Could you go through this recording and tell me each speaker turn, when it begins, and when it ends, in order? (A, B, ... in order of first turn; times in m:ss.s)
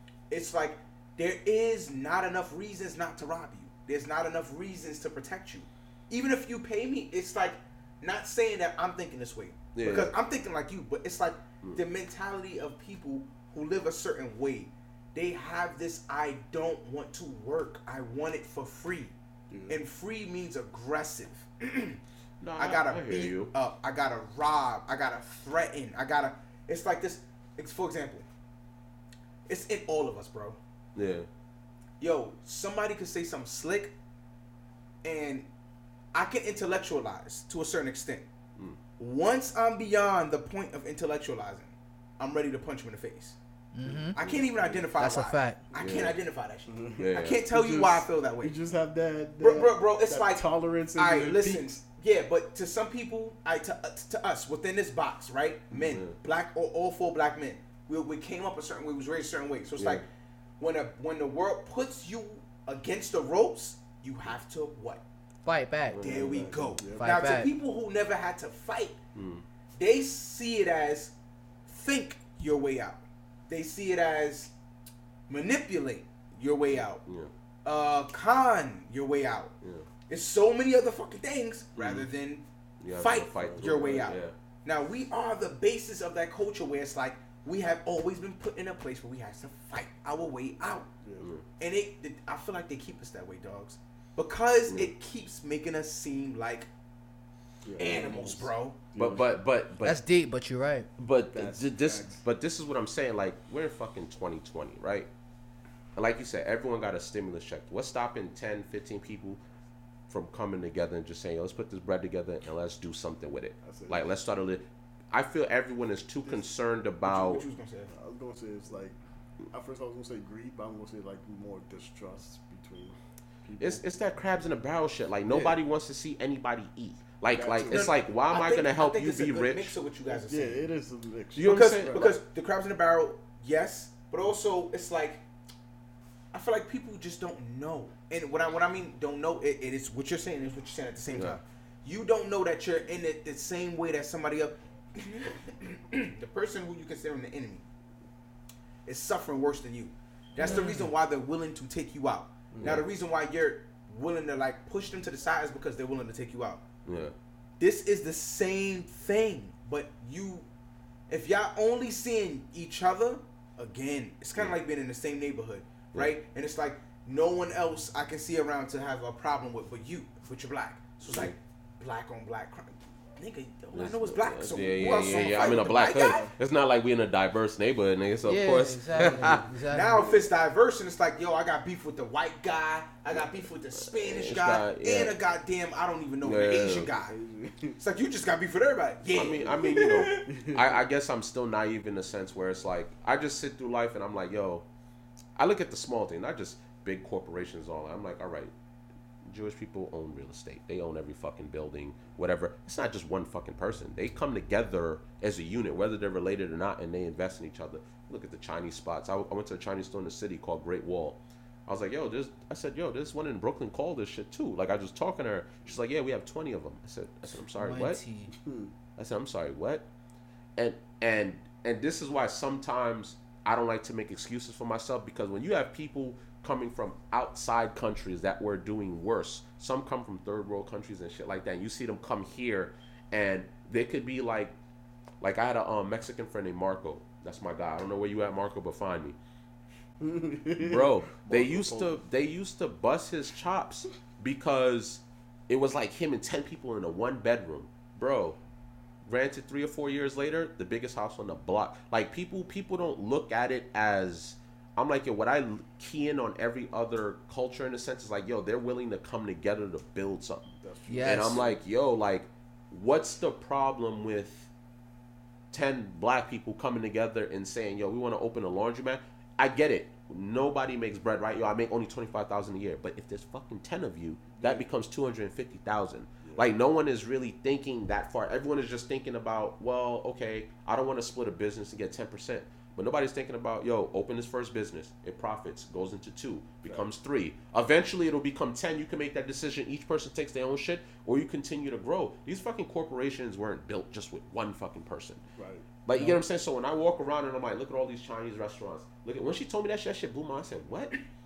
0:00.3-0:19.1 A
0:09.7-0:10.1 B
0:19.5-0:19.8 C
0:19.7-0:22.0 A
0:22.4-0:23.5 B
0:22.6-0:28.2 A
0:29.5-0:30.6 A
0:31.0-0:31.3 B
0:32.0-0:33.9 A
0:35.0-0:35.5 A
0:36.1-0:38.3 A
0:39.0-0:43.4 A
0:43.7-0:44.2 D
0:43.8-0:44.9 C
0:44.1-0:48.6 A
0:45.0-0:45.6 D
0:45.8-0:46.2 B
0:46.7-0:51.8 C
0:47.0-0:47.4 B
0:49.4-0:50.4 A
0:50.9-1:00.0 A
0:55.7-0:56.2 B
0:59.8-1:00.0 B
1:00.6-1:05.0 A
1:05.4-1:06.2 D
1:05.9-1:06.4 B
1:06.0-1:09.0 A
1:06.1-1:07.1 C
1:07.0-1:07.5 D
1:09.1-1:09.4 B
1:09.8-1:11.1 A
1:11.6-1:14.5 A
1:15.3-1:17.0 A
1:16.9-1:17.3 B
1:17.6-1:19.5 A
1:20.1-1:30.9 A
1:21.7-1:22.1 B
1:22.8-1:24.3 B
1:23.4-1:23.8 C
1:31.0-1:31.3 C
1:31.6-1:36.7 A
1:37.6-1:39.3 C
1:37.8-1:38.8 A
1:39.0-1:40.0 B
1:39.8-1:40.9 D
1:41.0-1:45.1 B
1:41.3-1:42.2 C
1:45.9-1:49.4 B
1:50.1-1:57.4 B
1:53.6-1:54.0 C
1:57.1-1:57.9 A
1:57.9-1:59.0 C
1:59.5-2:03.8 C
2:03.6-2:09.8 B
2:05.3-2:05.6 C
2:07.4-2:07.9 C
2:07.7-2:10.7 A
2:10.1-2:12.1 C
2:11.4-2:12.1 B
2:11.4-2:15.2 A
2:16.3-2:27.6 A
2:21.1-2:21.4 B
2:28.8-2:36.6 A
2:30.4-2:30.9 D
2:32.5-2:32.8 C
2:36.8-2:37.1 B
2:37.6-2:40.5 A
2:41.1-2:56.2 A
2:51.0-2:51.3 B
2:53.7-2:59.4 B
2:58.2-3:00.0 D
2:59.0-2:59.4 C
2:59.7-3:07.1 A
3:03.7-3:05.2 B
3:06.2-3:06.9 B
3:07.1-3:07.8 C
3:07.8-3:10.2 A
3:09.1-3:14.6 B
3:10.3-3:10.7 C
3:15.4-3:18.5 B
3:19.2-3:38.0 B
3:37.5-3:38.3 D
3:38.4-3:38.7 C
3:39.0-3:39.9 B
3:40.6-3:54.5 B
3:55.2-3:59.2 B
4:00.0-4:02.0 C
4:00.6-4:08.4 B
4:09.0-4:24.5 B
4:20.6-4:21.4 C
4:20.9-4:21.4 D
4:25.5-4:55.2 B
4:34.3-4:34.6 C
4:55.4-4:55.7 C
4:55.8-5:01.0 B
4:55.9-4:56.2 D